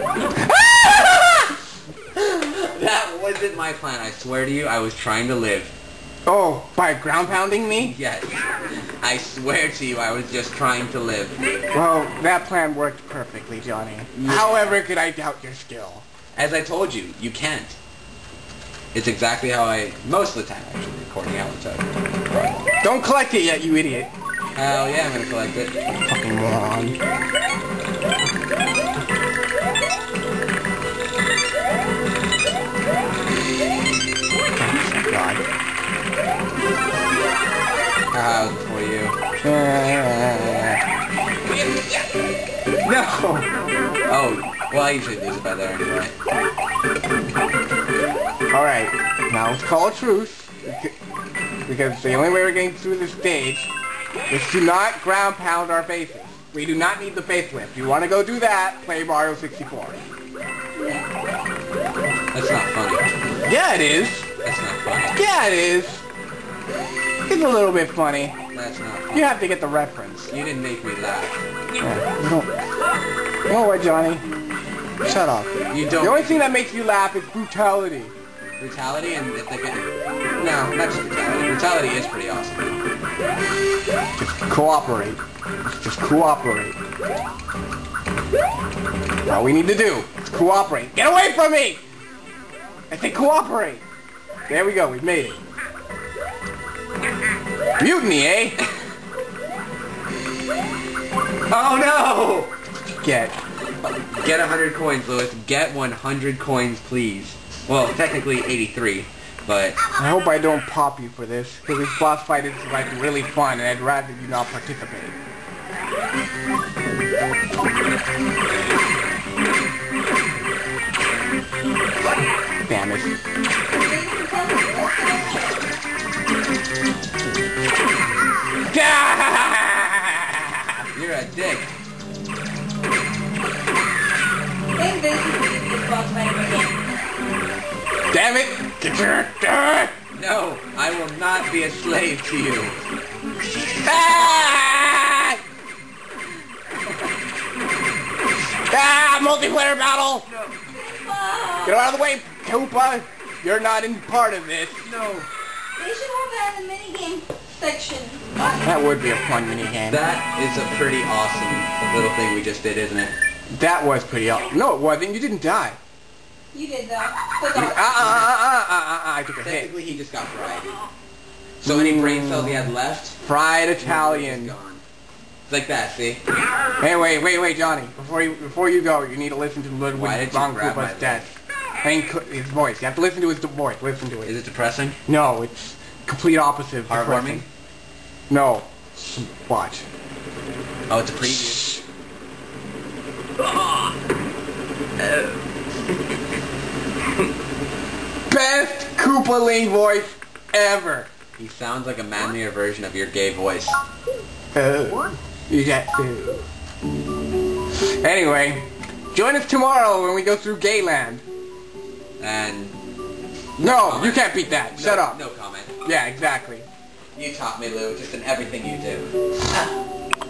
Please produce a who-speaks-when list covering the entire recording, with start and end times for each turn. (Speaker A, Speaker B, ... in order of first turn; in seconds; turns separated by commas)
Speaker A: 0.2-1.5, Speaker B: 2.1-5.7, Speaker A: 6.2-8.0, Speaker B: 7.5-11.4, Speaker A: 11.7-16.0, Speaker B: 14.1-14.8, Speaker B: 16.3-17.8, Speaker B: 18.9-22.6, Speaker A: 22.8-24.1, Speaker B: 24.6-25.7, Speaker A: 26.0-27.0, Speaker A: 34.5-35.4, Speaker B: 38.1-39.1, Speaker A: 39.4-40.8, Speaker B: 42.8-43.5, Speaker B: 44.1-46.1, Speaker A: 48.5-50.9, Speaker A: 51.6-53.7, Speaker A: 54.3-60.0, Speaker C: 60.7-61.0, Speaker B: 62.3-63.1, Speaker A: 63.4-64.3, Speaker B: 64.4-65.2, Speaker A: 65.1-66.0, Speaker A: 67.3-68.4, Speaker B: 68.5-69.4, Speaker A: 69.1-70.3, Speaker B: 70.3-71.4, Speaker A: 71.8-72.6, Speaker A: 73.5-74.2, Speaker A: 75.0-78.1, Speaker B: 75.7-76.5, Speaker B: 78.6-82.8, Speaker A: 84.2-86.8, Speaker A: 89.2-91.8, Speaker A: 92.9-93.8, Speaker A: 94.5-95.4, Speaker A: 97.8-98.6, Speaker B: 101.5-102.5, Speaker A: 103.0-103.4, Speaker B: 103.8-109.8, Speaker A: 110.0-115.2, Speaker A: 122.7-123.1, Speaker C: 123.7-125.6, Speaker A: 128.7-130.8, Speaker B: 130.9-131.7, Speaker C: 134.7-136.9, Speaker A: 138.1-139.9, Speaker B: 140.1-142.8, Speaker A: 143.8-145.4, Speaker A: 148.7-150.2, Speaker C: 150.7-151.8, Speaker A: 151.6-154.8, Speaker B: 154.8-155.3, Speaker C: 155.8-158.6, Speaker A: 158.6-160.0, Speaker B: 159.9-163.1, Speaker A: 163.5-165.8, Speaker C: 166.5-168.1, Speaker A: 167.5-169.7, Speaker B: 167.8-168.2, Speaker B: 169.4-170.8, Speaker B: 171.6-173.2, Speaker A: 171.6-172.7, Speaker A: 173.2-174.5, Speaker B: 173.8-174.8, Speaker B: 175.5-176.2, Speaker A: 176.8-184.3, Speaker B: 179.9-181.3, Speaker B: 184.2-185.0, Speaker A: 185.1-187.4, Speaker B: 186.9-187.4, Speaker A: 188.3-189.8, Speaker B: 190.9-191.7, Speaker A: 191.4-191.8, Speaker A: 198.3-201.1, Speaker B: 201.4-203.8, Speaker A: 204.5-206.4, Speaker A: 207.8-211.2, Speaker B: 212.2-212.8, Speaker A: 213.6-215.2, Speaker B: 213.6-215.7, Speaker A: 215.8-216.7, Speaker B: 217.1-219.7